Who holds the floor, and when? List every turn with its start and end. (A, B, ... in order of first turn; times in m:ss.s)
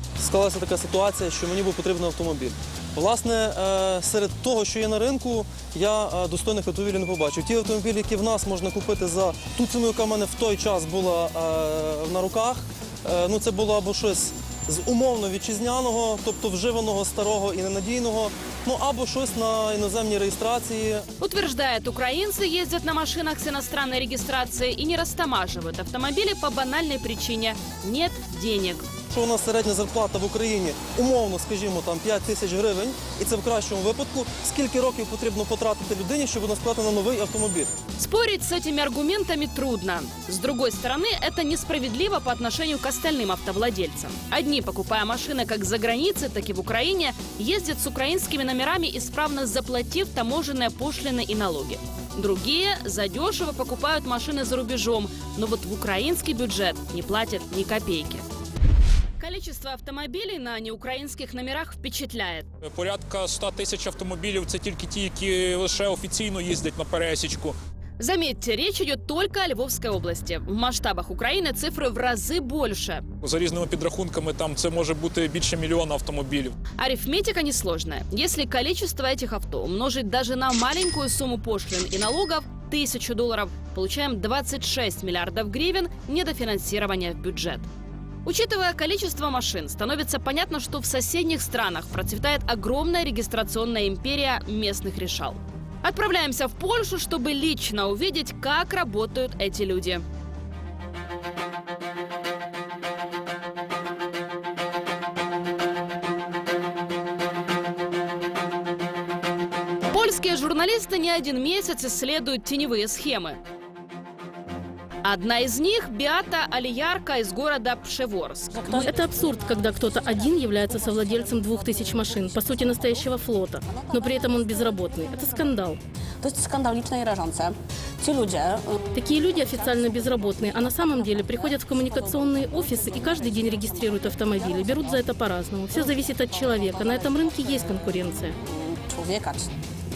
0:00.2-0:21.0 A
0:21.2-0:28.8 B
0:29.1-0:37.7 A
0:38.0-0:58.2 B
0:59.2-1:02.5 B
1:02.6-1:07.6 C
1:08.0-1:13.0 B
1:13.2-1:16.5 C
1:16.8-1:27.7 B
1:28.2-1:40.0 B
1:49.9-1:53.4 B
1:55.0-1:58.5 B
1:58.5-2:05.6 D
1:58.6-2:05.8 E
2:06.2-2:15.2 D
2:08.9-2:18.3 E
2:15.7-2:19.5 D